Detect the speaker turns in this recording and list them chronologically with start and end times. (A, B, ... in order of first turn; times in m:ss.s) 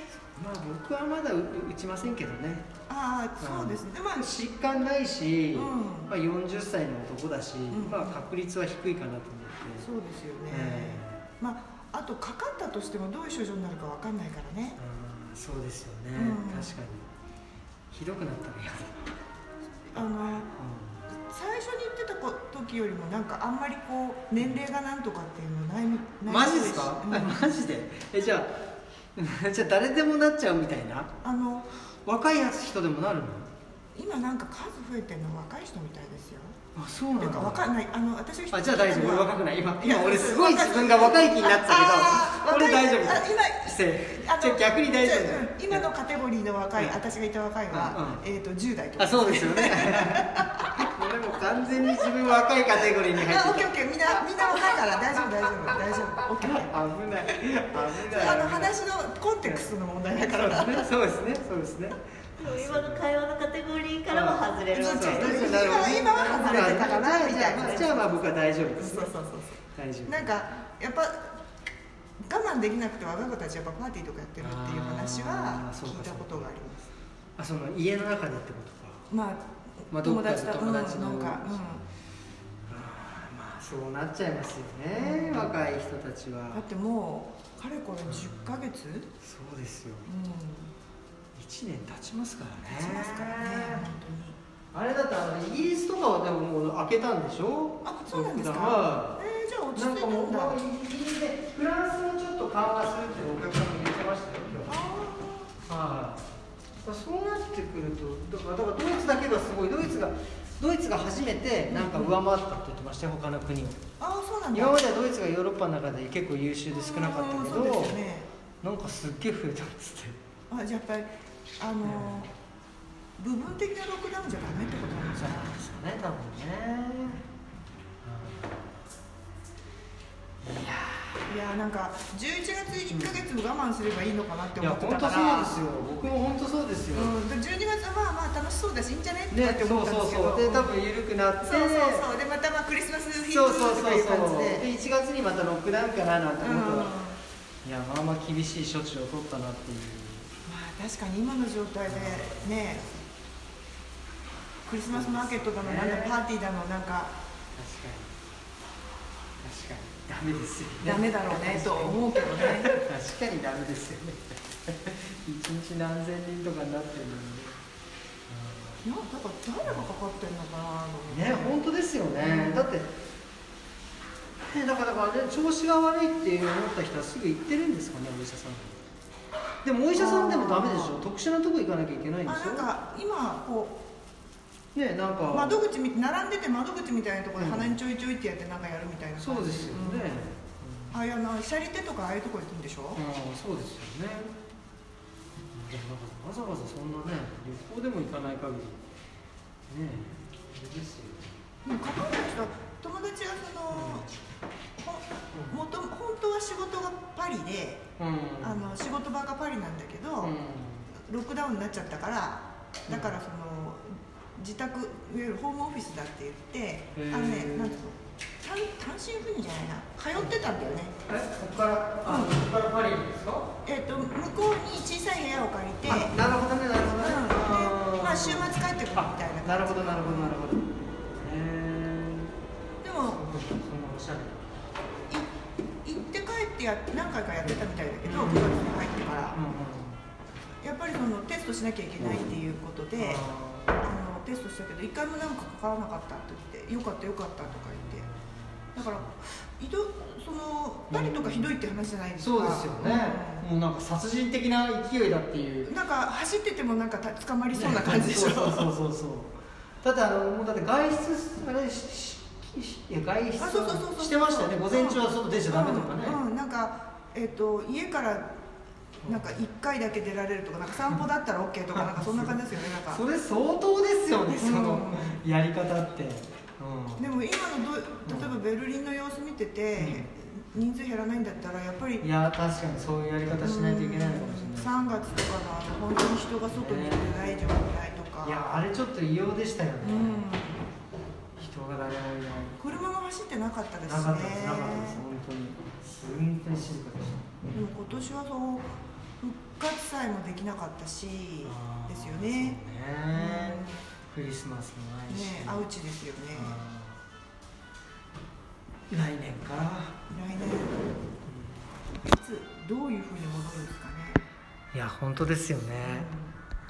0:00.3-0:02.7 A
0:02.9-0:04.3 B
0:03.4-0:09.9 A
0:05.5-0:06.1 B
0:07.7-0:08.2 B
0:09.8-0:14.8 B
0:10.5-0:11.2 A
0:14.8-0:17.1 A
0:16.1-0:16.8 B
0:17.9-0:19.2 A
0:19.9-0:20.5 B
0:19.9-0:21.0 A
0:21.1-0:27.6 B
0:26.2-0:28.6 A
0:29.1-0:31.1 A
0:31.2-0:31.7 B
0:32.0-0:33.5 A
0:33.9-0:36.6 B
0:36.7-0:37.7 A
0:37.2-0:50.9 B
0:38.5-0:45.9 A
0:47.7-0:48.2 A
0:49.0-0:55.0 A
0:51.8-0:56.7 B
0:55.8-0:58.7 A
0:57.3-1:00.9 B
0:59.4-1:03.1 A
1:02.4-1:05.5 C
1:04.1-1:09.1 A
1:04.7-1:08.2 B
1:08.8-1:11.4 B
1:09.7-1:10.4 A
1:12.2-1:16.9 B
1:14.4-1:16.5 A
1:17.4-1:19.1 A
1:19.1-1:21.8 B
1:19.9-1:21.7 A
1:22.7-1:26.6 A
1:24.9-1:25.6 B
1:26.5-1:29.1 B
1:28.0-1:28.6 A
1:29.2-1:30.1 A
1:30.0-1:30.7 B
1:31.3-1:33.8 A
1:32.6-1:34.4 B
1:34.7-1:44.7 A
1:37.8-1:40.6 B
1:44.7-1:45.5 B
1:45.7-1:46.2 A
1:46.8-1:53.8 A
1:51.7-1:52.2 B
1:54.0-1:54.8 B
1:54.5-1:58.0 A
1:56.7-1:58.3 B
1:58.6-2:00.2 A
2:00.5-2:02.3 B
2:01.8-2:02.3 A
2:03.2-2:05.6 B
2:05.1-2:07.2 A
2:08.0-2:08.6 A
2:10.4-2:11.3 A
2:11.2-2:15.6 B
2:12.8-2:13.3 A
2:14.6-2:17.2 A
2:16.9-2:20.7 B
2:19.3-2:22.0 A
2:21.4-2:24.7 B
2:23.2-2:26.9 A
2:26.4-2:27.2 B
2:27.6-2:30.3 A
2:30.4-2:33.0 B
2:31.8-2:32.8 A
2:34.6-2:37.1 B
2:34.9-2:36.2 A
2:37.5-2:38.2 A
2:39.4-2:47.6 A
2:40.8-2:42.7 B
2:48.3-2:48.9 A
2:48.8-2:51.6 B
2:49.6-2:49.9 A
2:51.1-2:52.9 A
2:52.2-2:52.7 B
2:54.4-2:58.8 A
2:59.6-3:02.7 A
2:59.9-3:01.0 B
3:02.2-3:03.8 B
3:04.7-3:05.6 A
3:05.3-3:10.3 B
3:07.3-3:07.8 A
3:09.2-3:11.0 A
3:10.9-3:13.0 B
3:12.9-3:14.3 A
3:15.5-3:18.8 A
3:19.7-3:21.3 A
3:21.6-3:24.1 B
3:23.7-3:24.1 A
3:24.8-3:27.8 B
3:25.3-3:25.6 A
3:28.0-3:28.7 A
3:28.4-3:30.4 B
3:30.2-3:30.9 A
3:30.9-3:41.0 B
3:32.9-3:33.2 A
3:36.9-3:37.9 A
3:41.0-3:44.1 A
3:42.0-3:42.3 B
3:43.6-3:50.4 B
3:45.9-3:52.3 A
3:52.8-3:53.2 B
3:53.1-3:54.6 A
3:55.8-3:59.4 B
3:58.0-3:58.6 A
3:59.3-4:00.0 A
4:00.6-4:03.2 B
4:03.0-4:03.8 A
4:03.8-4:08.1 B
4:07.4-4:09.1 A
4:08.7-4:13.4 B
4:10.9-4:11.6 A
4:12.2-4:15.7 A
4:15.6-4:18.7 B
4:17.5-4:26.2 A
4:23.4-4:28.4 B
4:29.0-4:29.4 A
4:29.0-4:33.0 B
4:31.7-4:37.1 A
4:34.3-4:35.2 B
4:37.0-4:42.0 B
4:38.0-4:38.4 A
4:39.8-4:40.1 A
4:42.0-4:45.1 A
4:43.4-4:48.6 B
4:46.5-4:47.6 A
4:48.2-4:50.2 A
4:49.8-4:50.7 B
4:51.4-4:52.8 A
4:52.6-4:55.0 B
4:53.8-4:57.4 A
4:57.5-5:02.6 B
5:01.4-5:05.7 A
5:03.1-5:03.8 B
5:05.1-5:06.6 B
5:06.3-5:07.0 A
5:08.9-5:10.0 A
5:10.1-5:10.9 B
5:11.2-5:11.7 A
5:12.0-5:14.2 B
5:14.7-5:16.1 A
5:15.8-5:16.3 B